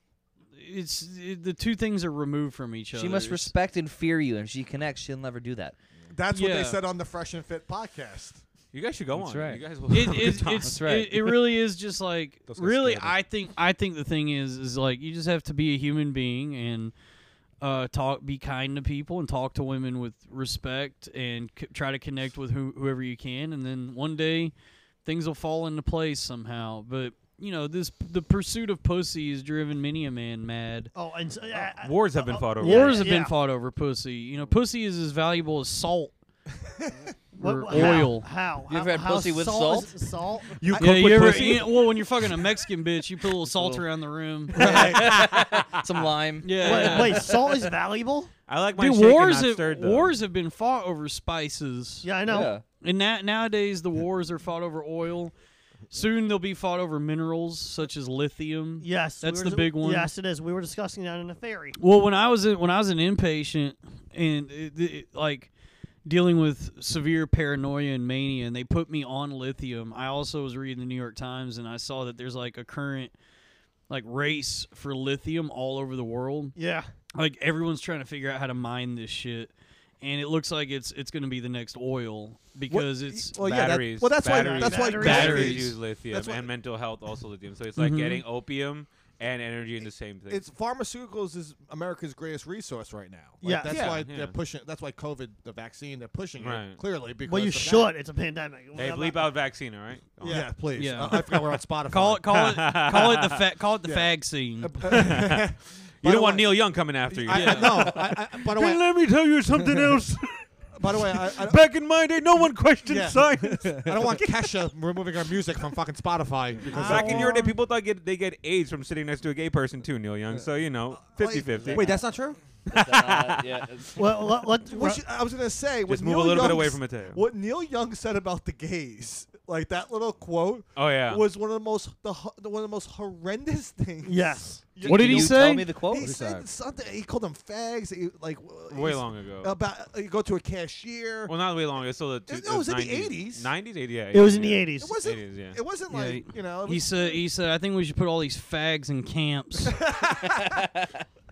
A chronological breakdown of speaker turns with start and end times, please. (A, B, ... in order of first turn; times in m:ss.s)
0:00.6-0:03.6 A
0:02.9-0:05.8 B
0:06.1-0:08.4 C
0:06.3-0:06.8 A
0:08.7-0:10.9 D
0:09.2-0:09.6 E
0:09.9-0:16.9 A
0:10.7-0:11.1 E
0:12.5-0:13.2 E
0:17.6-0:24.5 A
0:25.0-0:30.9 A
0:30.9-0:33.3 F
0:31.7-0:33.1 D
0:32.6-0:36.1 A
0:37.3-0:40.6 F
0:37.4-0:38.3 A
0:38.7-0:39.9 B
0:40.6-0:42.0 C
0:40.8-0:44.8 A
0:40.8-0:41.5 E
0:41.1-0:41.5 D
0:44.5-0:45.3 C
0:44.6-0:47.3 B
0:44.7-0:45.8 D
0:46.4-0:47.2 A
0:46.5-0:48.3 F
0:48.5-0:50.2 D
0:48.8-0:52.1 A
0:52.0-0:52.6 F
0:52.3-0:52.6 B
0:52.8-0:55.4 A
0:55.9-1:00.1 A
0:58.8-1:01.8 F
1:01.8-1:05.5 A
1:06.0-1:13.1 A
1:13.9-1:16.6 A
1:16.6-1:16.9 F
1:17.1-1:23.4 A
1:22.7-1:26.5 C
1:23.4-1:30.4 D
1:24.3-1:25.8 F
1:25.0-1:25.6 A
1:27.8-1:28.2 A
1:30.3-1:37.9 C
1:33.4-1:33.8 F
1:33.7-1:34.4 D
1:36.4-1:36.8 D
1:37.2-1:39.3 F
1:38.8-1:40.6 D
1:40.2-1:42.3 C
1:40.8-1:41.2 A
1:41.8-1:45.0 A
1:42.3-1:43.4 D
1:44.6-1:48.8 C
1:44.9-1:45.5 D
1:46.0-1:54.2 D
1:47.3-1:47.9 A
1:50.7-1:51.6 C
1:52.9-1:57.5 C
1:53.5-1:54.0 E
1:56.7-1:57.4 E
1:56.7-2:02.0 D
2:01.1-2:02.0 C
2:01.6-2:02.0 B
2:01.7-2:02.4 E
2:02.7-2:03.9 D
2:02.7-2:04.0 B
2:04.0-2:05.0 F
2:04.7-2:21.3 C
2:05.9-2:07.2 D
2:10.8-2:11.2 D
2:14.0-2:14.7 F
2:14.8-2:15.7 A
2:14.8-2:16.2 B
2:15.9-2:16.5 E
2:18.7-2:19.5 D
2:21.3-2:25.6 D
2:22.3-2:23.5 C
2:24.1-2:25.0 F
2:24.8-2:27.2 C
2:25.9-2:29.8 A
2:29.7-2:30.6 C
2:30.2-2:31.0 B